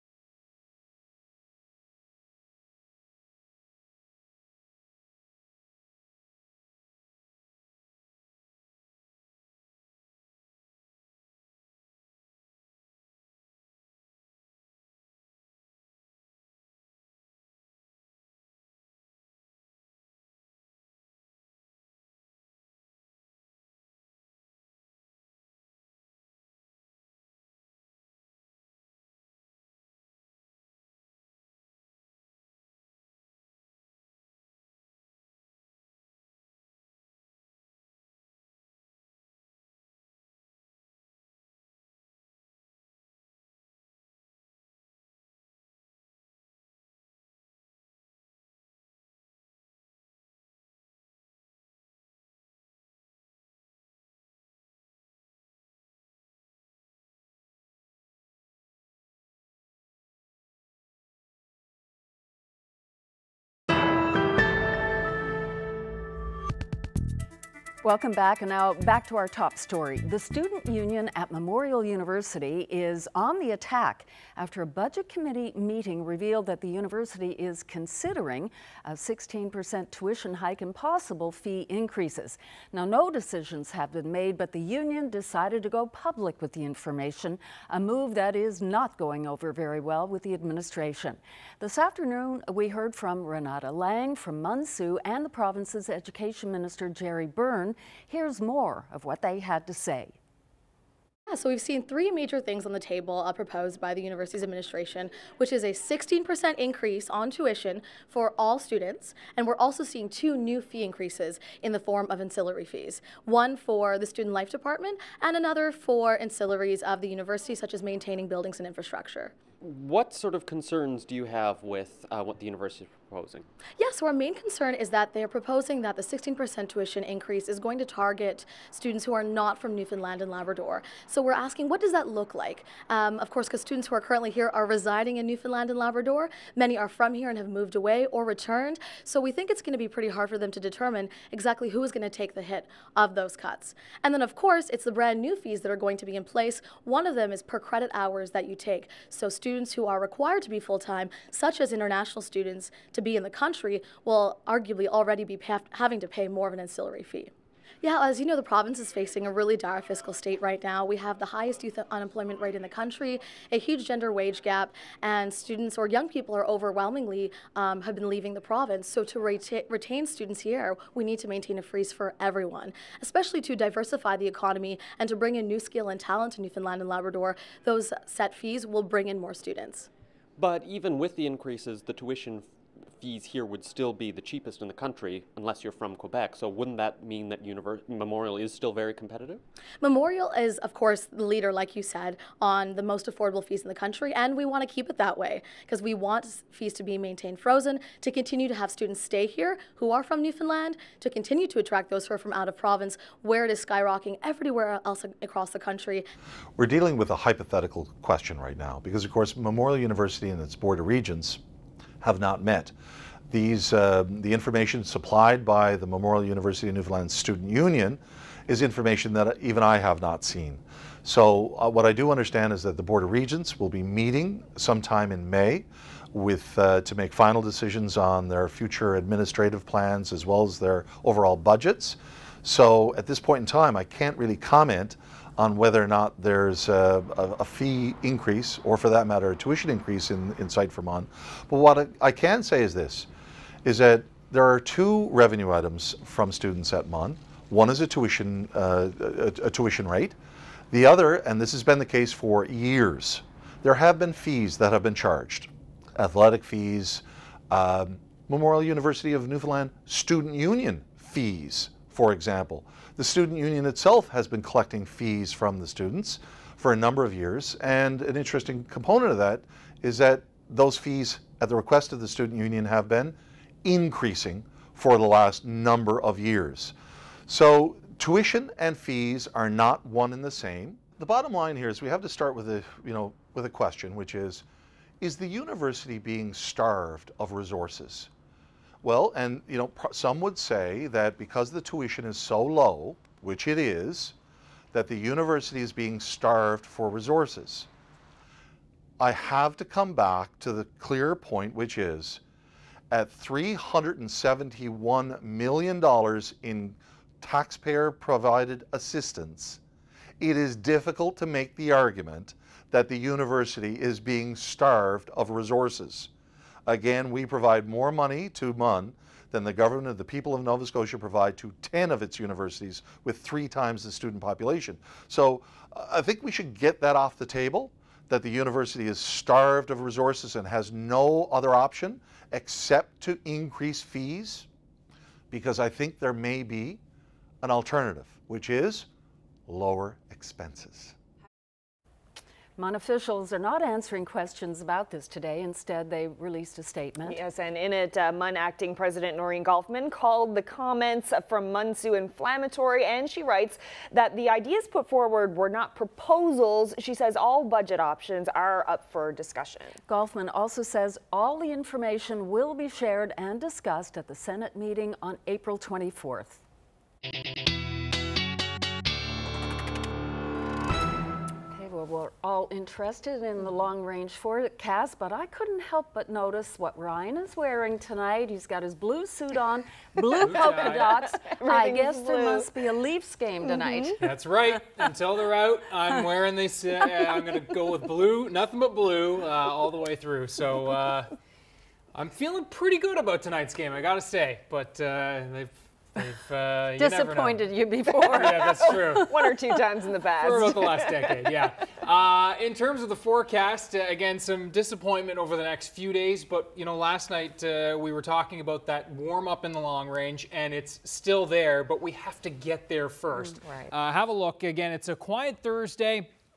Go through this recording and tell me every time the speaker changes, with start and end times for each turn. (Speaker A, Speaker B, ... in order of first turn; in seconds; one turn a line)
Speaker A: 67.8-100.2
Speaker B: 101.3-119.4
Speaker C: 119.6-123.5
Speaker B: 123.8-157.3
Speaker B: 157.8-179.9
Speaker C: 180.4-189.4
Speaker B: 189.8-206.1
Speaker D: 206.6-211.4
Speaker D: 212.0-212.7
Speaker D: 213.3-243.1
Speaker D: 243.7-250.2
Speaker D: 250.7-276.8
Speaker D: 277.3-284.4
Speaker D: 285.0-288.1
Speaker D: 288.8-294.1
Speaker D: 294.7-297.7
Speaker D: 299.0-302.2
Speaker D: 302.9-309.6
Speaker D: 310.2-316.1
Speaker D: 316.7-334.5
Speaker D: 335.3-336.8
Speaker D: 337.4-338.9
Speaker D: 339.5-340.9
Speaker A: 342.6-347.2
Speaker E: 347.1-359.8
Speaker A: 359.9-366.4
Speaker A: 371.5-384.0
Speaker F: 380.2-380.9
Speaker E: 380.3-382.5
Speaker E: 383.4-383.9
Speaker F: 384.0-391.1
Speaker F: 391.9-397.4
Speaker A: 396.8-399.3
Speaker F: 398.0-399.1
Speaker E: 398.9-401.3
Speaker F: 400.2-416.1
Speaker E: 413.1-413.7